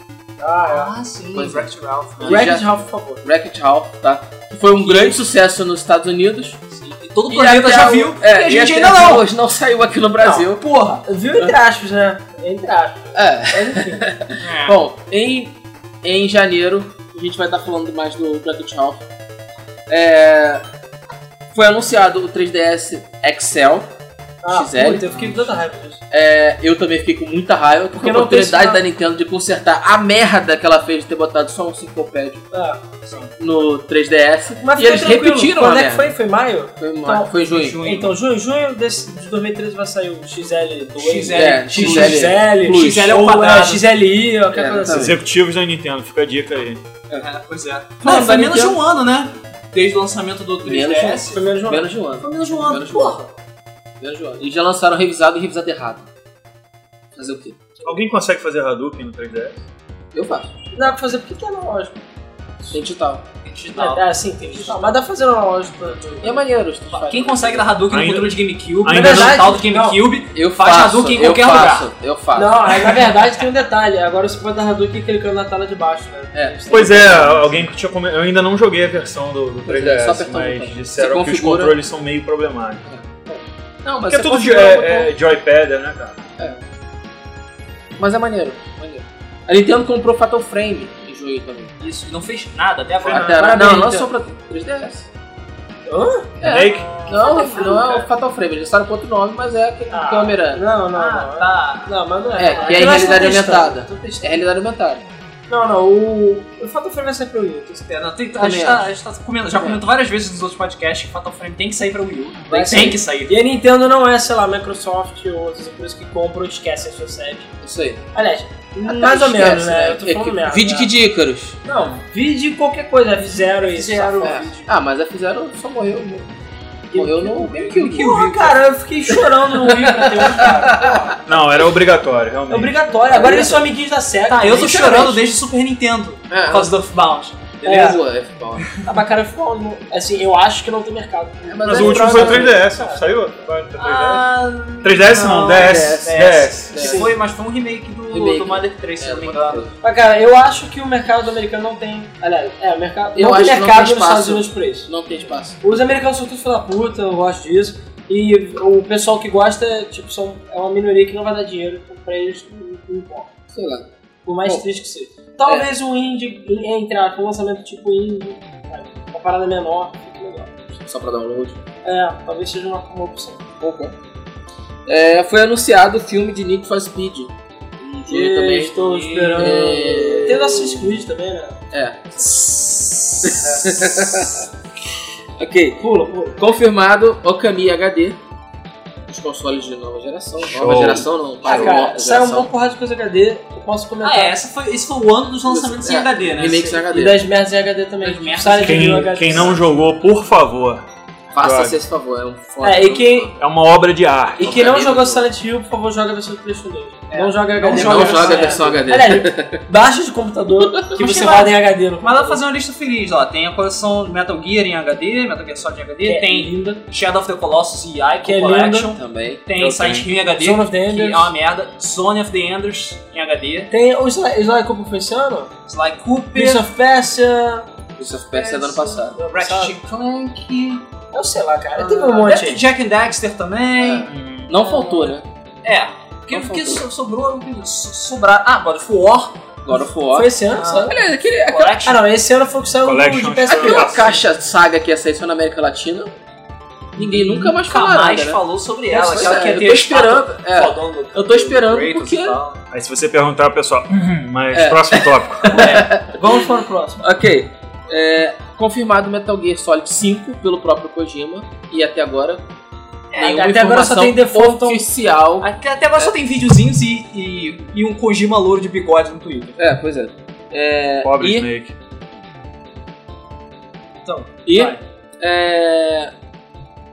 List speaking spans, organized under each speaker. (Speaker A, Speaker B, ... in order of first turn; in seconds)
Speaker A: 0.4-0.9, 2.2-3.2, 11.1-14.1, 24.4-26.0, 28.0-28.8, 32.5-32.8, 34.6-37.3, 37.8-45.2, 51.3-51.9, 60.7-62.0, 63.8-66.5, 68.9-70.0, 72.3-77.7, 84.4-85.1, 93.1-94.1, 95.9-98.1, 99.9-104.3, 105.5-107.9, 112.5-117.5, 118.1-120.9, 121.7-124.5, 126.9-131.4, 132.5-135.2, 137.6-138.0, 138.8-143.0, 145.1-145.4, 146.8-147.1, 149.8-154.9, 155.6-163.3, 164.2-170.5, 171.8-173.5, 178.1-181.6, 185.8-186.4, 191.4-194.4, 196.9-199.7, 202.6-203.3, 204.4-212.4, 216.0-216.8, 218.2-219.0, 220.3-221.3, 223.7-225.5, 226.3-227.7, 228.3-229.8, 231.1-232.6, 234.7-234.9, 240.1-241.0, 241.8-244.1, 248.9-249.6, 256.2-256.7, 263.1-264.8, 274.1-274.8
Speaker B: 0.7-2.5, 6.8-9.2, 10.5-11.0, 14.4-14.8, 37.5-38.1, 40.9-43.9, 47.2-51.4, 52.2-53.3, 63.4-64.9, 66.9-71.9, 91.8-93.4, 100.9-103.5, 107.9-113.4, 123.3-124.7, 127.6-128.6, 134.3-137.4, 143.8-149.7, 178.7-179.7, 182.2-183.5, 194.0-196.8, 198.0-199.5, 207.1-208.7, 210.9-223.7, 225.7-226.6, 229.2-230.8, 231.8-234.1, 235.6-239.4, 240.5-242.0, 247.0-252.6, 255.5-257.0, 265.4-269.5
Speaker C: 1.3-6.6, 7.3-10.7, 13.2-19.1, 19.9-20.6, 21.5-23.9, 24.5-25.4, 26.1-32.5, 33.4-36.1, 36.8-37.8, 41.3-43.1, 44.5-45.2, 48.0-48.8, 50.6-53.2, 54.0-56.1, 57.2-57.7, 60.1-60.5, 62.7-63.2, 66.2-67.7, 70.3-73.0, 76.3-77.3, 79.7-81.8, 82.9-83.3, 83.8-85.0, 88.0-91.7, 93.1-95.1, 96.4-100.6, 102.4-105.1, 108.3-108.9, 109.5-109.8, 117.6-118.0, 118.9-121.6, 124.2-126.3, 126.9-128.2, 129.6-131.0, 133.1-133.7, 134.6-135.1, 136.3-136.7, 137.6-138.7, 141.5-142.6, 145.5-147.1, 148.1-149.8, 153.2-155.6, 163.5-163.9, 165.4-165.7, 170.8-171.6, 173.6-173.9, 174.9-178.8, 179.3-180.9, 181.7-182.3, 183.2-184.5, 185.4-188.2, 189.1-192.5, 195.5-197.2, 201.3-203.3, 204.4-205.3, 207.7-209.6, 210.6-210.9, 218.9-219.4, 228.0-229.2, 233.8-235.3, 236.3-236.8, 239.7-241.8, 243.5-246.1, 247.0-248.4, 248.9-252.4, 254.5-262.4, 263.2-266.1, 269.6-271.5, 274.5-276.1
Speaker D: 44.9-46.8, 57.8-59.6, 67.9-69.5, 76.7-82.8, 84.1-86.2, 96.4-97.0, 131.3-132.8, 141.6-144.2, 144.8-146.7, 190.4-191.1, 198.6-200.9, 201.4-201.8, 203.4-204.7, 219.6-220.1, 234.1-234.5, 242.8-244.2, 252.7-255.7, 271.0-271.7